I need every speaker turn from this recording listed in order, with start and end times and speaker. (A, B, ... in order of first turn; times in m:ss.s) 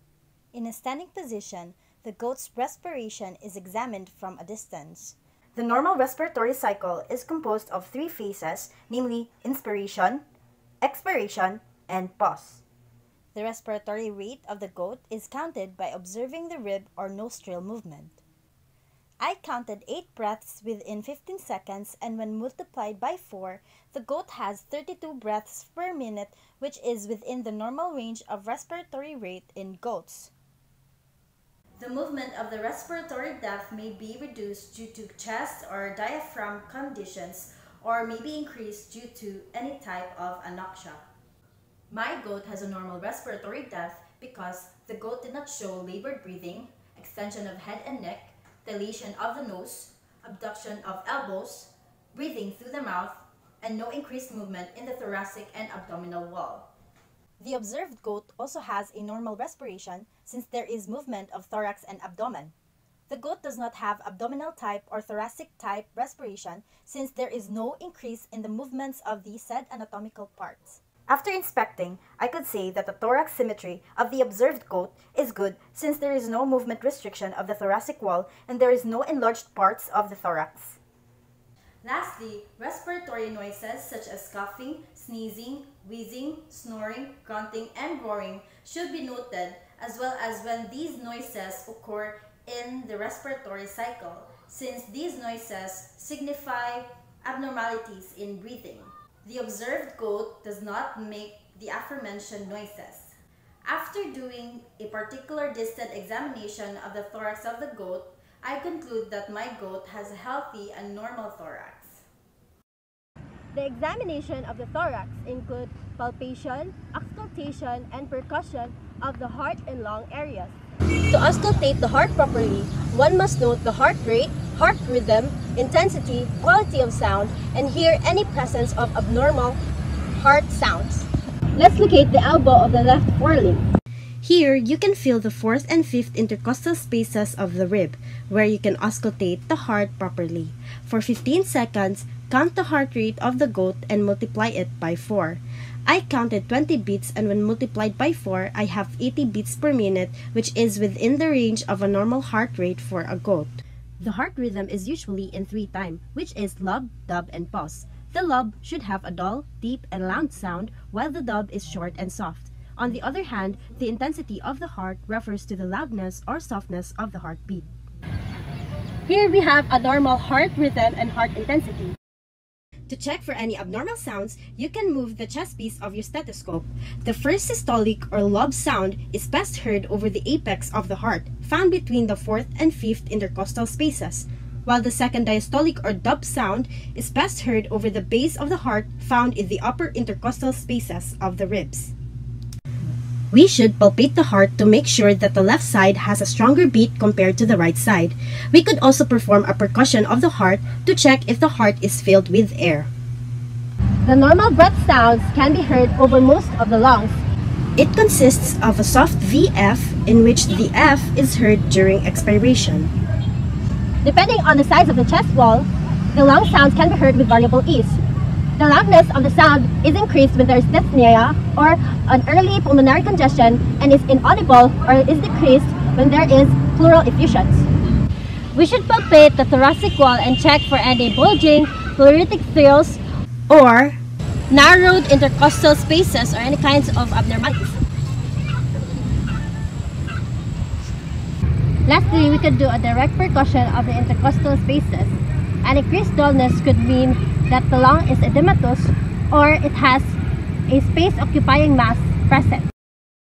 0:00.5-0:10.2 A
0:10.8-0:12.6 A
0:13.3-0:18.2 A
0:19.2-0:30.3 A
0:31.8-0:41.0 A
0:41.9-0:56.7 A
0:57.4-1:02.5 A
1:03.1-1:20.8 A
1:21.8-1:43.1 A
1:43.7-1:52.0 A
1:53.5-2:00.6 B
2:01.1-2:09.6 B
2:10.2-2:13.6 B
2:14.2-2:47.7 A
2:49.1-2:52.0 B
2:52.9-3:11.9 A
3:13.3-3:22.9 A
3:24.0-3:27.2 B
3:27.8-3:32.9 A
3:34.0-3:38.0 B
3:38.6-3:47.7 B
3:48.5-3:53.0 B
3:53.5-3:54.0 A
3:54.5-3:57.8 B
4:01.9-4:10.2 B
4:10.7-4:12.7 B